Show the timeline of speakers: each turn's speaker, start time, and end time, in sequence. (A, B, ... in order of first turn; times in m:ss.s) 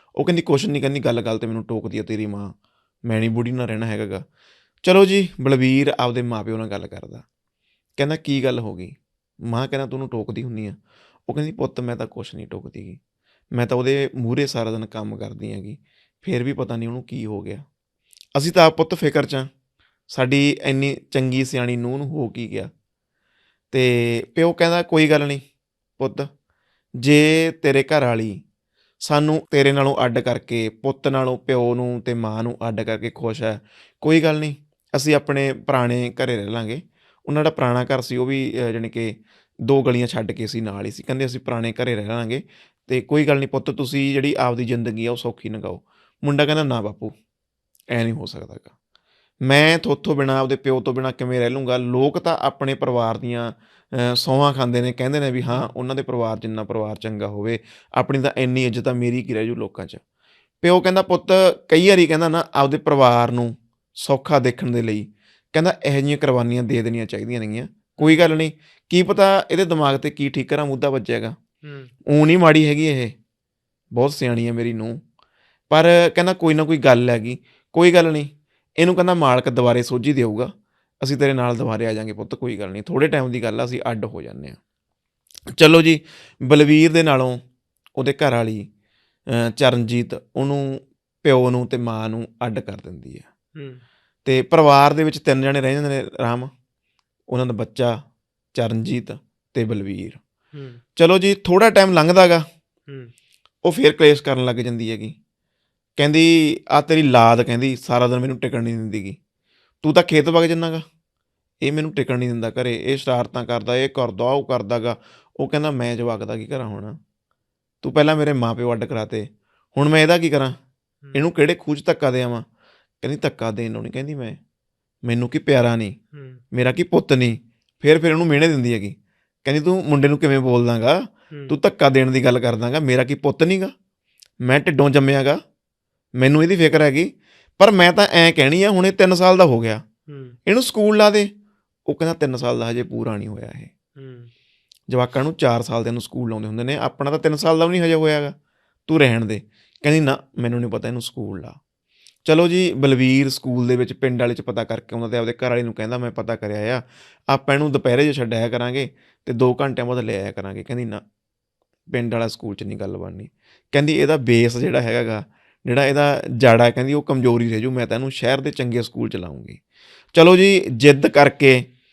0:00.2-0:02.5 A
0:03.1-0:04.2 A
0:04.8-0:07.2 A
0:08.0-0:08.9 A
0:09.5-0:13.0 A
0:13.5-0:17.6 A
0:18.3-0:19.5 A
0:20.1-0:22.7 A
0:23.7-0:25.4 A
0:26.0-0:26.3 A
0:27.0-0:28.4 A
0:29.0-0:47.1 A
0:47.9-0:48.7 A
0:49.4-1:00.0 A
1:00.6-1:11.4 A
1:08.0-1:08.2 B
1:11.6-1:11.9 B
1:12.1-1:13.1 A
1:13.9-1:15.0 A
1:15.7-1:24.6 A
1:25.6-1:27.4 A
1:28.0-1:28.7 A
1:29.3-1:33.2 A
1:33.6-1:33.8 B
1:34.2-1:36.5 A
1:37.3-1:38.0 A
1:38.5-1:40.2 A
1:40.5-1:40.8 B
1:41.0-1:42.4 A
1:43.6-1:45.2 A
1:46.0-1:49.2 A
1:49.8-1:50.8 A
1:51.6-1:57.0 A
1:57.8-2:00.6 A
2:01.1-2:02.4 A
2:03.0-2:04.4 A
2:05.0-2:06.0 A
2:06.1-2:06.4 B
2:06.5-2:13.7 A
2:14.4-2:15.4 A
2:16.2-2:19.8 A
2:20.1-2:20.4 B
2:20.4-2:21.3 A
2:21.9-2:23.7 A
2:24.0-2:24.3 B
2:24.9-2:28.4 A
2:28.9-2:31.6 A
2:32.2-2:41.0 A
2:41.9-2:49.6 A
2:50.1-2:51.7 A